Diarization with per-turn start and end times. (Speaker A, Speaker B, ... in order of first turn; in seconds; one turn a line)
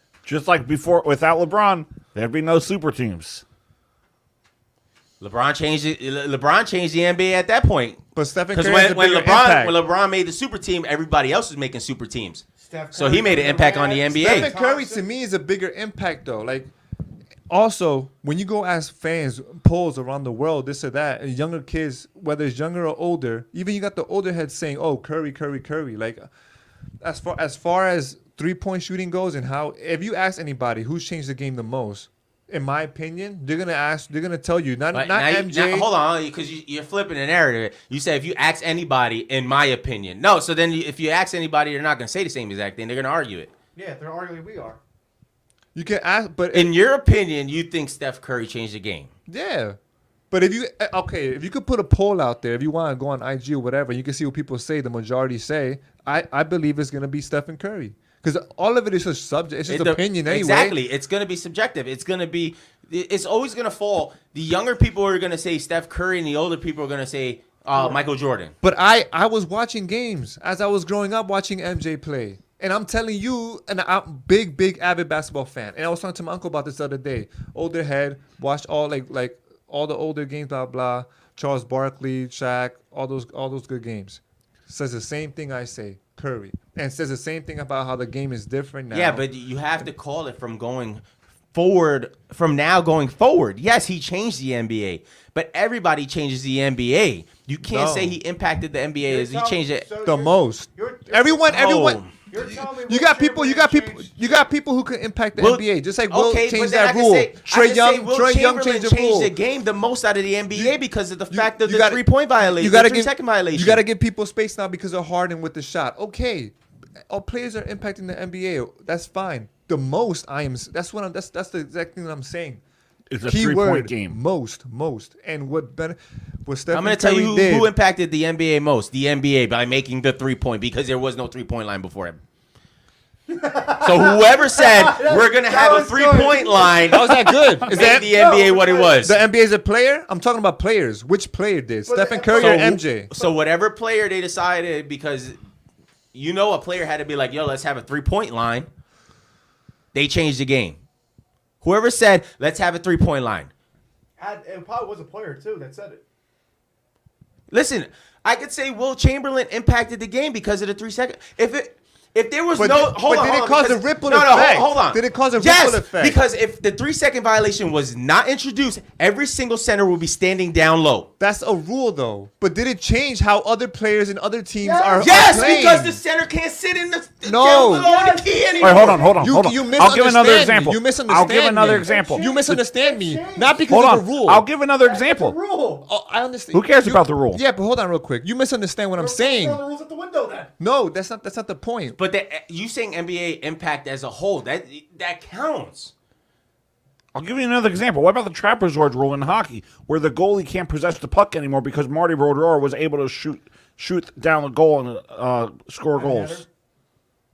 Speaker A: 0.2-3.4
Speaker B: 5.2-8.0
Speaker C: 8.1-9.7
Speaker B: 8.5-12.4
Speaker D: 12.6-15.0
Speaker B: 12.9-14.5
Speaker C: 14.1-16.7
Speaker C: 17.5-26.3
Speaker C: 27.0-35.9
Speaker B: 34.9-43.5
Speaker D: 43.8-44.8
Speaker C: 45.7-46.7
Speaker B: 46.5-49.1
Speaker C: 49.3-49.8
Speaker C: 50.3-60.8
Speaker B: 59.7-68.5
Speaker C: 68.6-89.2
Speaker B: 88.9-91.0
Speaker B: 91.5-99.8
Speaker C: 97.7-98.2
Speaker D: 99.0-101.5
Speaker C: 100.0-109.3
Speaker B: 101.5-102.1
Speaker D: 102.3-104.1
Speaker B: 105.4-113.8
Speaker C: 111.3-116.5
Speaker C: 117.1-122.6
Speaker A: 123.1-124.2
Speaker C: 123.2-127.7
Speaker B: 126.7-132.2
Speaker D: 133.3-137.1
Speaker B: 133.8-137.1
Speaker C: 136.9-138.1
Speaker B: 137.7-139.2
Speaker D: 137.7-139.0
Speaker C: 139.0-143.1
Speaker D: 141.9-143.3
Speaker B: 142.4-145.4
Speaker B: 146.1-148.7
Speaker B: 149.9-150.8
Speaker B: 151.6-153.5
Speaker D: 154.2-156.0
Speaker B: 157.5-171.1
Speaker C: 162.6-166.2
Speaker C: 171.2-176.0
Speaker D: 174.6-175.7
Speaker B: 175.0-179.1
Speaker C: 177.2-177.9
Speaker D: 177.5-179.2
Speaker A: 178.6-182.3
Speaker C: 179.2-184.4
Speaker D: 181.8-183.6
Speaker A: 183.7-185.3
Speaker D: 184.8-185.8
Speaker C: 185.8-189.6
Speaker A: 186.5-187.4
Speaker D: 189.0-190.5
Speaker C: 190.6-192.0
Speaker B: 191.9-195.9
Speaker A: 197.1-206.4
Speaker D: 205.9-206.4